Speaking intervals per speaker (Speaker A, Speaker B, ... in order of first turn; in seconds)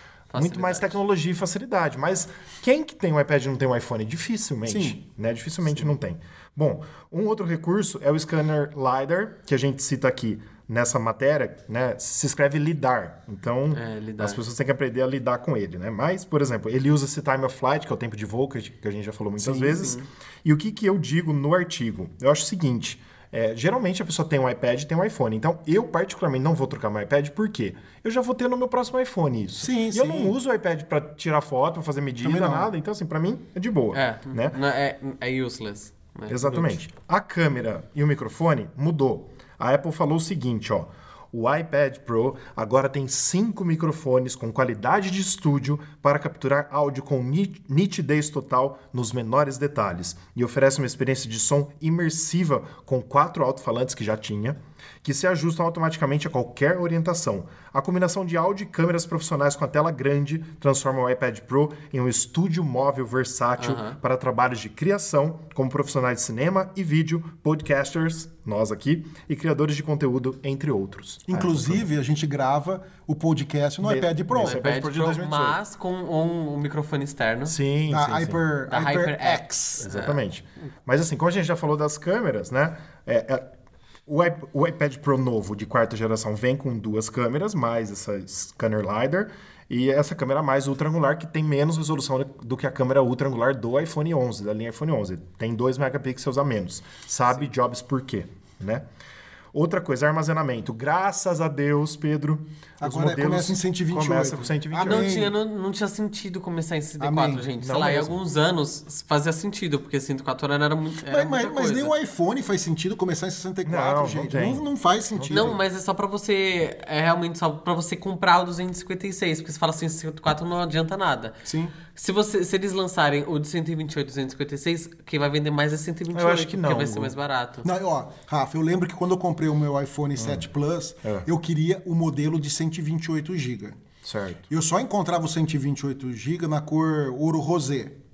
Speaker A: 0.3-0.9, 13.7-14.4, 33.9-36.8, 63.6-64.0, 74.4-77.5, 78.7-80.2, 104.9-111.9, 115.3-121.4, 121.9-127.7
Speaker B: 0.3-34.6, 36.3-71.9, 73.8-75.6, 77.5-78.4, 79.8-83.5, 84.0-98.8, 99.5-105.2, 107.6-108.2, 113.6-115.5, 126.1-127.1, 130.2-130.4, 134.0-134.5
Speaker C: 4.7-5.0, 19.4-19.9, 29.6-30.4, 32.2-32.7, 71.3-74.6, 77.9-79.9, 102.8-105.3, 107.0-107.5, 111.1-115.6, 121.5-121.7, 127.6-133.8, 134.5-138.0